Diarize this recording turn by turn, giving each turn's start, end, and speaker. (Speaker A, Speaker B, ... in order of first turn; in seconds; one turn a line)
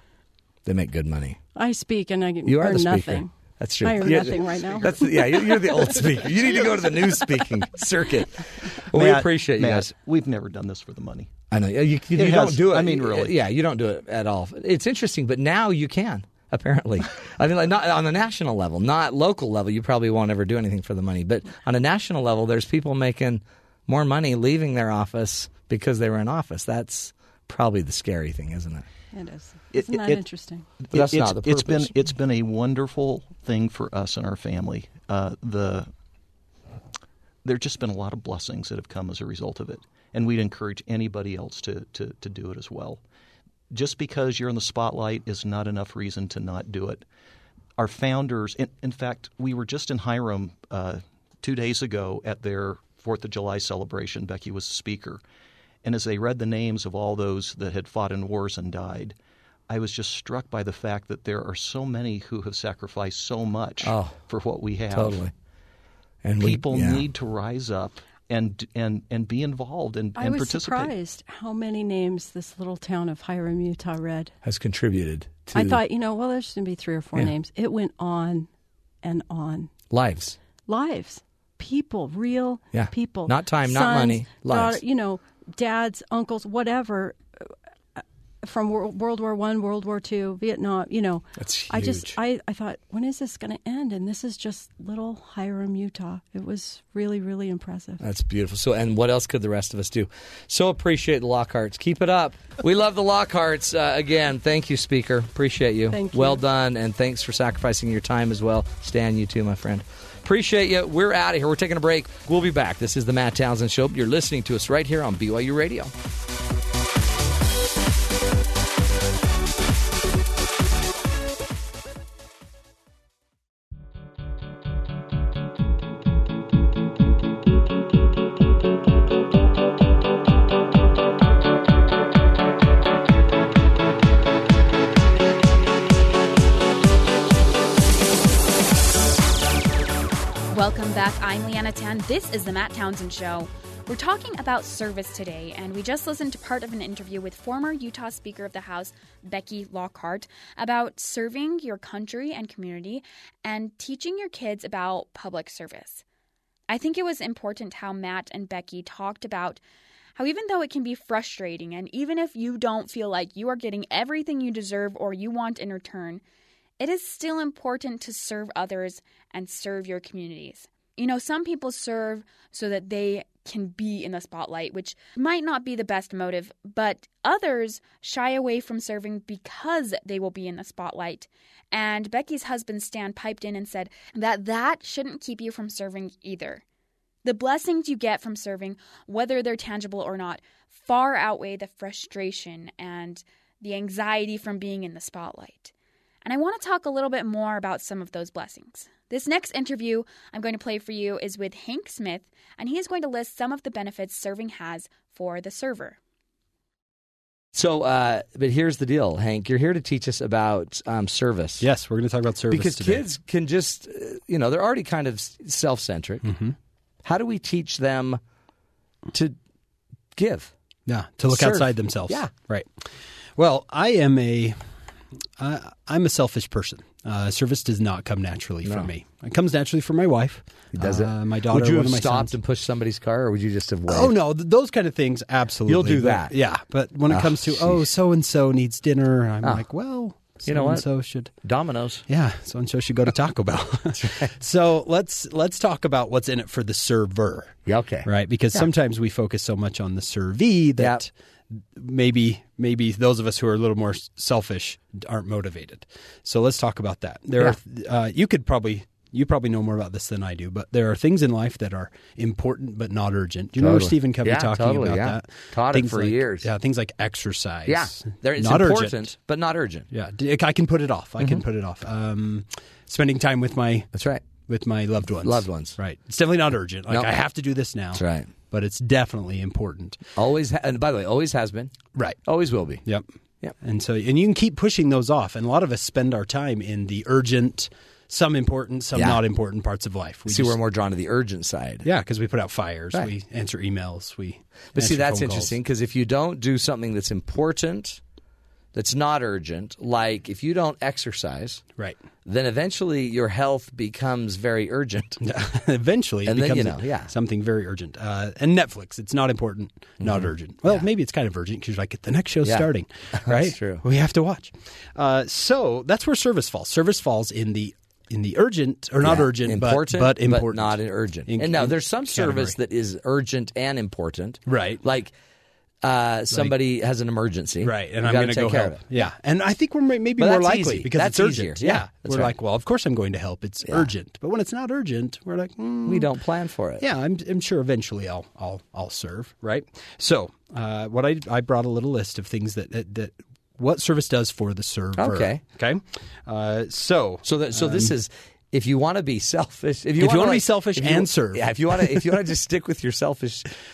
Speaker A: 0.6-1.4
Speaker B: 1.6-3.3
Speaker A: 2.5-9.9
Speaker B: 3.8-5.8
Speaker C: 8.9-11.3
Speaker A: 11.5-28.9
Speaker C: 12.1-13.3
Speaker B: 29.1-30.6
Speaker C: 29.7-30.2
Speaker C: 30.9-35.9
Speaker A: 30.9-31.9
Speaker C: 37.4-43.0
Speaker C: 43.7-47.0
Speaker C: 47.8-55.2
Speaker C: 55.8-59.1
Speaker C: 59.7-65.3
Speaker A: 63.8-64.2
Speaker A: 64.9-65.3
Speaker A: 66.2-67.0
Speaker C: 66.4-70.9
Speaker B: 70.2-74.3
Speaker A: 74.4-75.8
Speaker B: 75.5-78.5
Speaker B: 79.0-79.7
Speaker A: 79.9-80.4
Speaker B: 80.7-98.0
Speaker A: 82.7-84.8
Speaker A: 91.4-92.1
Speaker A: 98.0-115.9
Speaker B: 105.9-106.4
Speaker D: 140.5-156.0
Speaker D: 156.7-159.6
Speaker D: 160.2-166.2
Speaker D: 166.8-186.6
Speaker D: 187.2-195.7
Speaker D: 196.2-206.0
Speaker A: 207.5-211.7
Speaker E: 211.6-213.0
Speaker A: 212.5-216.3
Speaker E: 216.2-216.5
Speaker A: 217.0-218.2
Speaker A: 220.2-220.5
Speaker E: 220.9-222.8
Speaker A: 221.3-222.3
Speaker E: 223.3-224.6
Speaker E: 225.4-232.3
Speaker A: 230.7-234.1
Speaker E: 233.9-241.3
Speaker A: 235.7-236.3
Speaker A: 237.1-237.8
Speaker A: 240.4-240.9
Speaker A: 241.4-242.0
Speaker E: 242.1-269.1
Speaker A: 244.0-244.3
Speaker A: 247.7-248.6
Speaker A: 263.6-266.5
Speaker A: 267.7-269.9
Speaker E: 269.9-280.0
Speaker A: 273.9-274.2
Speaker A: 275.2-275.8
Speaker A: 277.9-278.3
Speaker A: 280.1-281.7
Speaker E: 281.9-282.2
Speaker A: 282.2-282.8
Speaker E: 283.6-290.6
Speaker A: 288.9-289.2
Speaker A: 290.3-291.9
Speaker E: 291.8-295.6
Speaker A: 294.7-298.0
Speaker A: 298.7-301.6
Speaker A: 302.2-305.2
Speaker E: 305.2-322.6
Speaker A: 306.2-307.1
Speaker A: 310.0-310.8
Speaker A: 313.2-313.8
Speaker A: 319.0-325.1
Speaker E: 324.5-324.8
Speaker A: 325.8-328.8
Speaker E: 327.6-336.1
Speaker A: 330.2-332.3
Speaker A: 335.9-336.8
Speaker E: 336.8-347.9
Speaker A: 344.9-345.4
Speaker A: 347.2-353.5
Speaker E: 350.0-352.1